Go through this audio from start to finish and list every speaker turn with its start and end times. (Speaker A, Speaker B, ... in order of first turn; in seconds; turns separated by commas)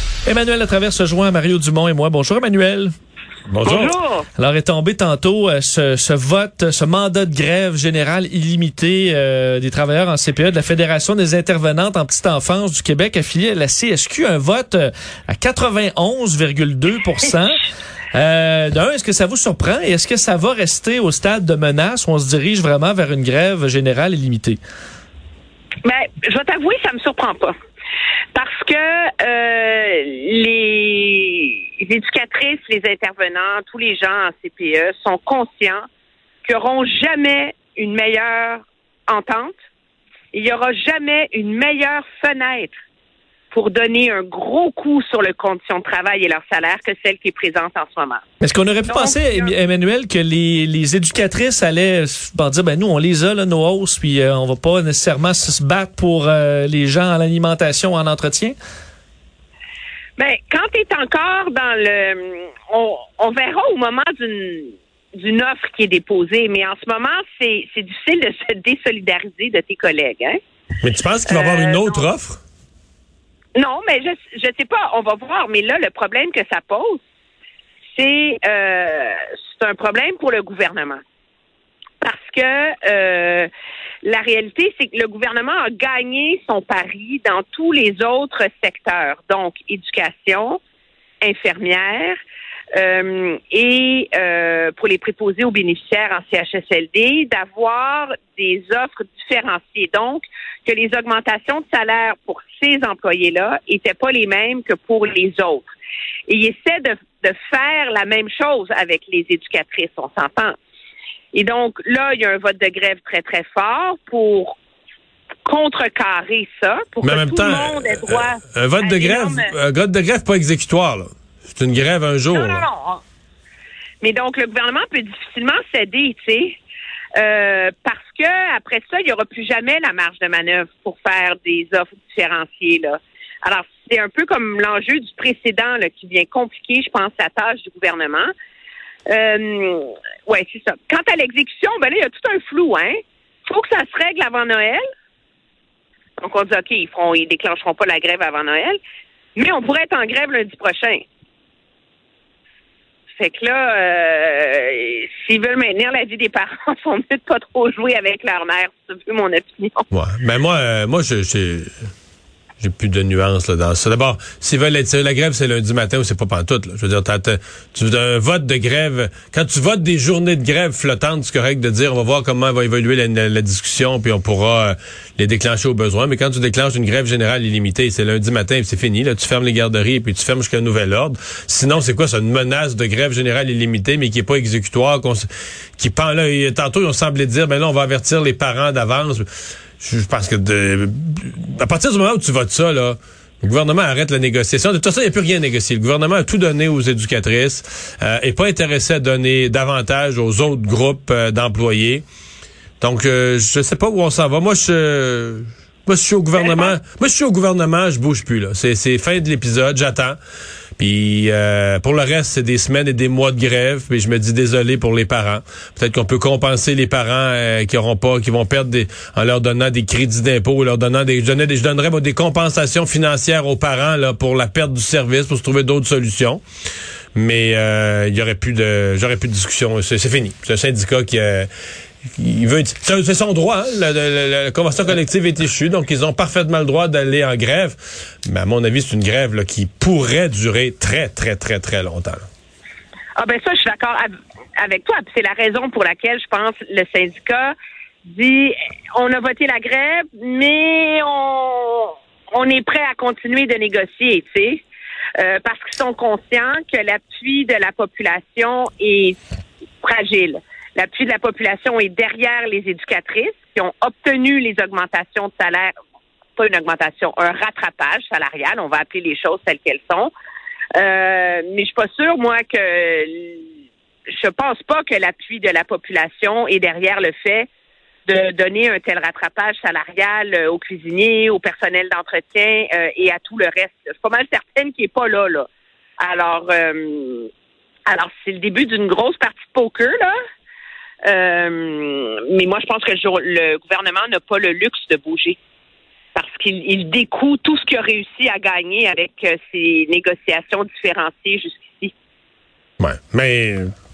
Speaker A: 0.2-2.9, Speaker B: 3.5-3.9, Speaker C: 3.6-4.3, Speaker A: 4.4-24.6, Speaker C: 25.8-27.5, Speaker C: 28.3-35.9, Speaker C: 36.4-39.5, Speaker C: 40.3-42.7, Speaker C: 43.5-48.2, Speaker A: 48.4-58.5, Speaker C: 48.9-49.5, Speaker C: 60.2-70.4, Speaker B: 70.8-72.4, Speaker C: 71.3-72.1, Speaker C: 73.5-77.0, Speaker C: 77.9-81.0, Speaker C: 82.0-83.5, Speaker C: 84.0-90.6, Speaker C: 91.2-92.2, Speaker C: 92.8-105.7, Speaker C: 106.3-110.5, Speaker C: 111.3-114.5, Speaker C: 115.4-119.5, Speaker B: 117.0-122.7, Speaker C: 122.3-123.0, Speaker C: 124.0-126.6, Speaker C: 127.2-138.3, Speaker C: 139.1-142.9, Speaker C: 143.4-144.8, Speaker C: 146.2-148.8, Speaker C: 149.3-151.0, Speaker C: 153.2-159.8, Speaker B: 159.9-161.7, Speaker B: 162.6-189.2, Speaker B: 189.8-202.0, Speaker B: 202.8-210.2, Speaker C: 206.3-206.8, Speaker B: 210.8-226.4, Speaker B: 227.2-231.5, Speaker B: 232.2-242.2, Speaker C: 243.2-247.5, Speaker C: 248.0-254.6, Speaker C: 255.2-259.2, Speaker C: 259.8-265.7, Speaker C: 266.4-270.1, Speaker C: 270.8-273.4, Speaker C: 274.1-277.5, Speaker C: 278.1-285.5, Speaker C: 286.0-287.3, Speaker C: 287.9-290.1, Speaker C: 291.1-295.4, Speaker C: 296.1-301.9, Speaker B: 302.8-303.7